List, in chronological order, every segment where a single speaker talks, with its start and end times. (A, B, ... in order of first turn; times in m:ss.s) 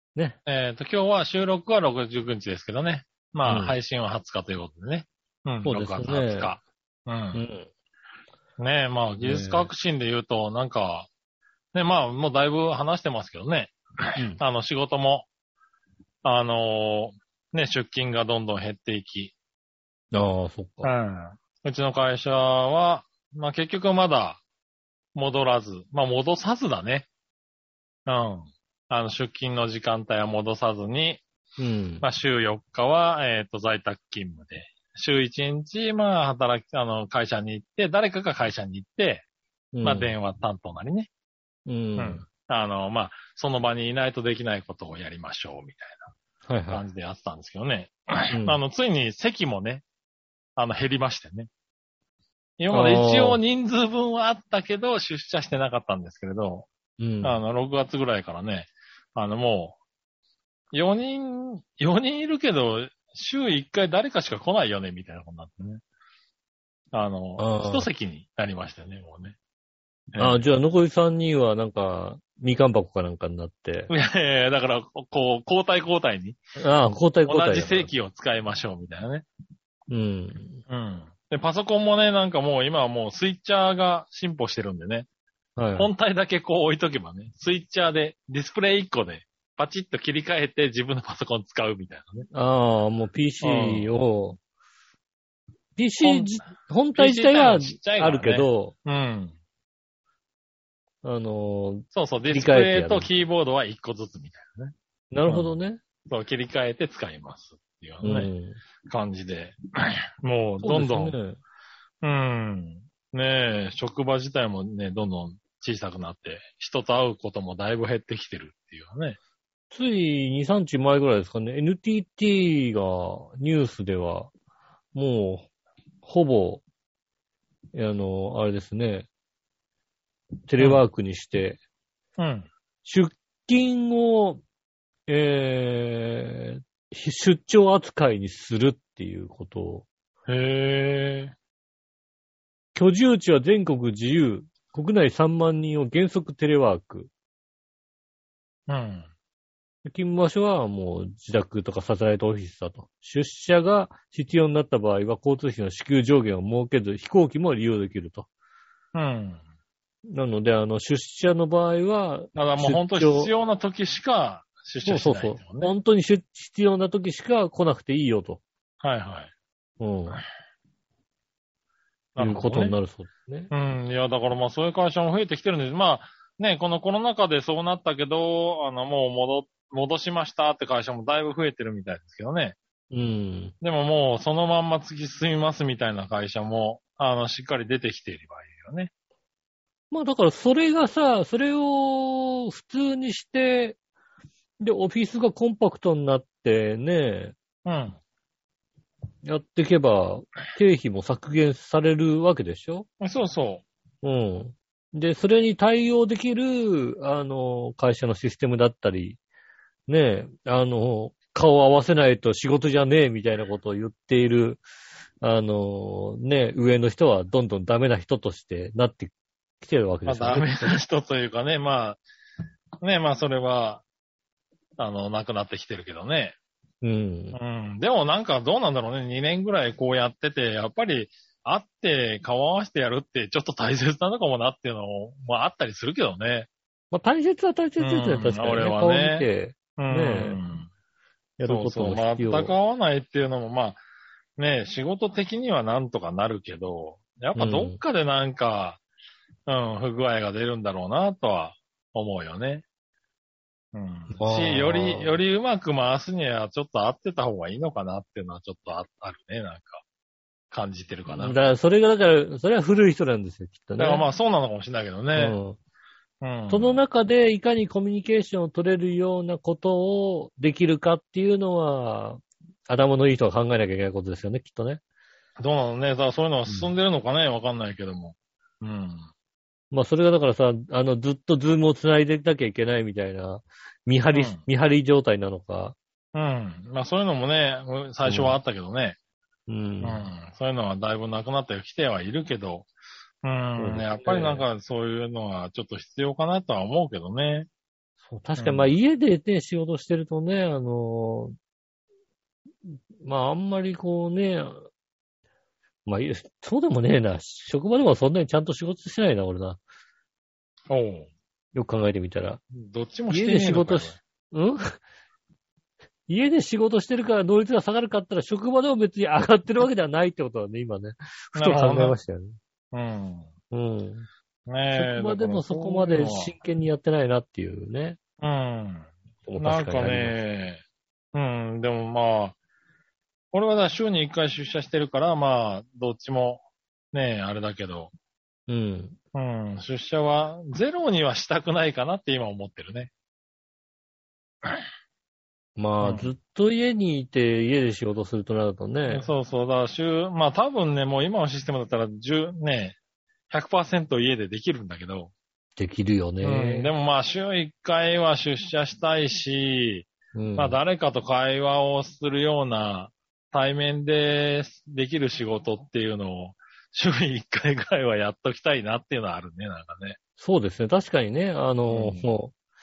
0:00.5-0:07.4 A
0:03.4-0:03.8 B
0:05.6-0:06.5 B
0:07.3-0:07.7 B
0:08.6-0:11.1 A
0:09.2-0:09.7 B
0:11.7-0:15.3 A
0:14.2-0:14.4 B
0:16.2-0:19.3 A
0:20.1-0:20.9 B
0:20.8-0:24.4 A
0:25.2-0:27.1 A
0:28.1-0:31.2 A
0:31.6-0:32.1 B
0:32.0-0:39.2 A
0:39.7-0:40.1 B
0:39.8-0:41.1 A
0:41.7-0:42.2 B
0:42.0-0:46.1 A
0:46.5-0:46.8 B
0:46.7-0:49.8 A
0:48.3-0:48.6 B
0:50.6-0:51.5 A
0:52.6-0:56.7 A
0:52.7-0:53.4 B
0:57.0-0:57.4 B
0:57.2-0:59.8 A
1:00.7-1:05.8 A
1:06.9-1:09.4 A
1:07.4-1:07.9 B
1:10.1-1:10.4 A
1:10.2-1:13.9 B
1:13.9-1:16.4 A
1:16.6-1:17.9 B
1:17.3-1:19.3 A
1:19.9-1:20.6 B
1:20.7-1:25.1 A
1:25.6-1:25.9 B
1:25.8-1:32.3 A
1:32.3-1:34.4 B
1:33.4-1:33.9 A
1:35.8-1:38.7 B
1:36.0-1:36.3 A
1:36.9-1:39.4 A
1:41.0-1:43.1 B
1:41.9-1:44.7 A
1:45.1-1:45.8 B
1:45.3-1:48.3 A
1:48.0-1:48.6 B
1:48.9-1:51.2 A
1:50.6-1:51.4 B
1:52.0-1:59.2 A
1:59.7-2:04.3 B
2:04.9-2:05.5 B
2:06.0-2:06.6 B
2:07.7-2:09.1 B
2:10.5-2:11.6 B
2:12.2-2:12.5 A
2:12.8-2:14.4 B
2:15.1-2:19.9 B
2:20.3-2:21.3 A
2:22.8-2:27.1 B
2:28.7-2:29.1 A
2:29.8-2:38.3 B
2:38.9-2:39.4 A
2:40.1-2:43.3 B
2:42.4-2:45.7 A
2:44.8-2:48.4 B
2:48.8-2:49.3 A
2:49.8-2:50.2 B
2:52.2-2:52.8 A
2:52.2-2:53.5 B
2:53.5-3:02.6 A
3:02.9-3:03.5 B
3:03.6-3:08.9 A
3:09.9-3:13.8 B
3:14.6-3:17.4 B
3:17.6-3:18.0 A
3:19.2-3:22.9 B
3:23.0-3:23.6 A
3:24.0-3:29.2 B
3:29.9-3:34.6 B
3:35.2-3:40.8 B
3:40.1-3:42.0 A
3:42.8-3:43.8 A
3:44.8-3:46.4 A
3:46.8-3:47.4 B
3:47.3-3:56.5 A
3:56.9-4:00.4 B
3:57.8-4:00.7 A
4:01.4-4:02.6 B
4:01.4-4:03.8 A
4:04.4-4:08.8 A
4:07.4-4:07.8 B
4:09.5-4:12.6 A
4:13.7-4:19.8 A
4:14.1-4:15.2 B
4:20.5-4:21.4 A
4:21.1-4:24.1 B
4:23.8-4:25.4 A
4:25.2-4:25.6 B
4:26.2-4:26.8 A
4:26.5-4:34.8 B
4:35.4-4:39.1 A
4:39.7-4:45.8 B
4:44.1-4:44.4 A
4:46.1-4:49.0 A
4:48.0-4:48.4 B
4:49.5-4:50.0 B
4:49.8-4:52.7 A
4:53.2-4:57.5 A
4:53.6-4:54.5 B
4:58.1-5:01.4 B
4:58.4-4:58.7 A
5:02.7-5:04.7 B
5:05.9-5:09.6 B
5:10.7-5:11.1 A
5:11.5-5:12.4 B
5:12.5-5:14.0 A
5:13.1-5:14.8 B
5:16.1-5:22.4 B
5:21.4-5:22.0 A
5:22.7-5:23.3 A
5:23.5-5:24.1 B
5:24.5-5:26.3 A
5:24.7-5:28.0 B
5:28.2-5:30.6 A
5:29.3-5:30.2 B
5:31.1-5:32.4 A
5:33.3-5:37.9 A
5:38.5-5:39.0 B
5:39.1-5:42.9 A
5:45.6-5:49.1 B
5:45.8-5:46.1 A
5:48.9-5:52.8 A
5:53.3-5:55.1 A
5:55.6-5:56.7 B
5:56.2-6:10.0 A
6:00.1-6:00.6 B
6:10.2-6:12.3 B
6:11.7-6:12.1 A